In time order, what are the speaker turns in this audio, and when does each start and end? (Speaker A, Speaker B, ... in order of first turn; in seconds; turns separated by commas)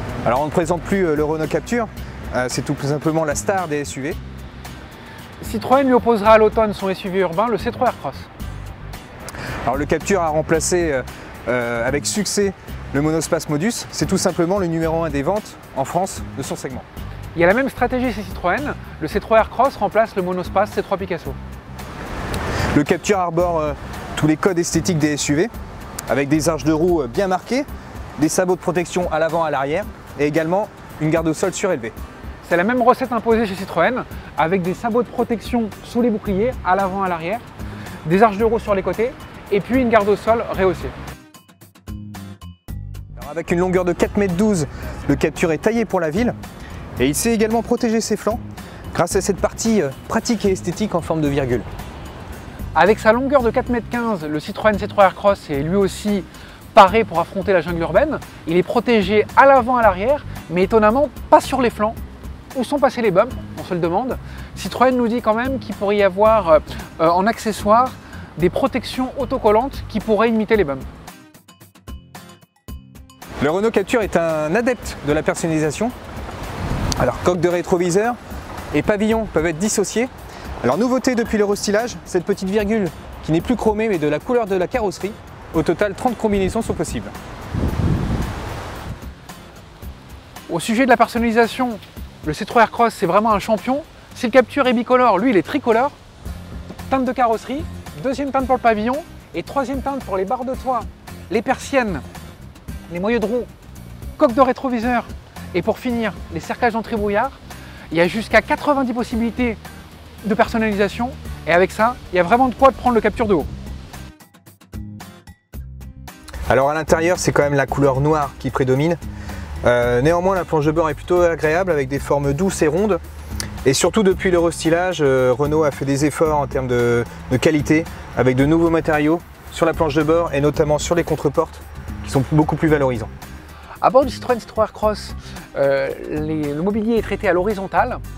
Speaker A: 0.2-4.2, Speaker B: 5.4-8.3, Speaker A: 9.7-16.9, Speaker B: 17.4-21.4, Speaker A: 22.7-25.5, Speaker A: 26.1-27.7, Speaker A: 28.2-31.9, Speaker B: 32.4-37.5, Speaker B: 38.0-40.9, Speaker A: 43.2-46.4, Speaker A: 47.0-48.4, Speaker A: 48.9-51.7, Speaker B: 52.7-62.0, Speaker B: 62.5-70.9, Speaker A: 73.4-75.9, Speaker A: 77.0-78.2, Speaker A: 78.7-80.1, Speaker A: 80.6-87.1, Speaker B: 90.5-96.0, Speaker B: 96.9-102.0, Speaker B: 102.9-103.5, Speaker B: 104.2-107.4, Speaker B: 107.9-109.6, Speaker B: 110.2-113.5, Speaker A: 116.5-119.0, Speaker A: 119.6-123.0, Speaker A: 123.7-133.1, Speaker B: 133.8-138.0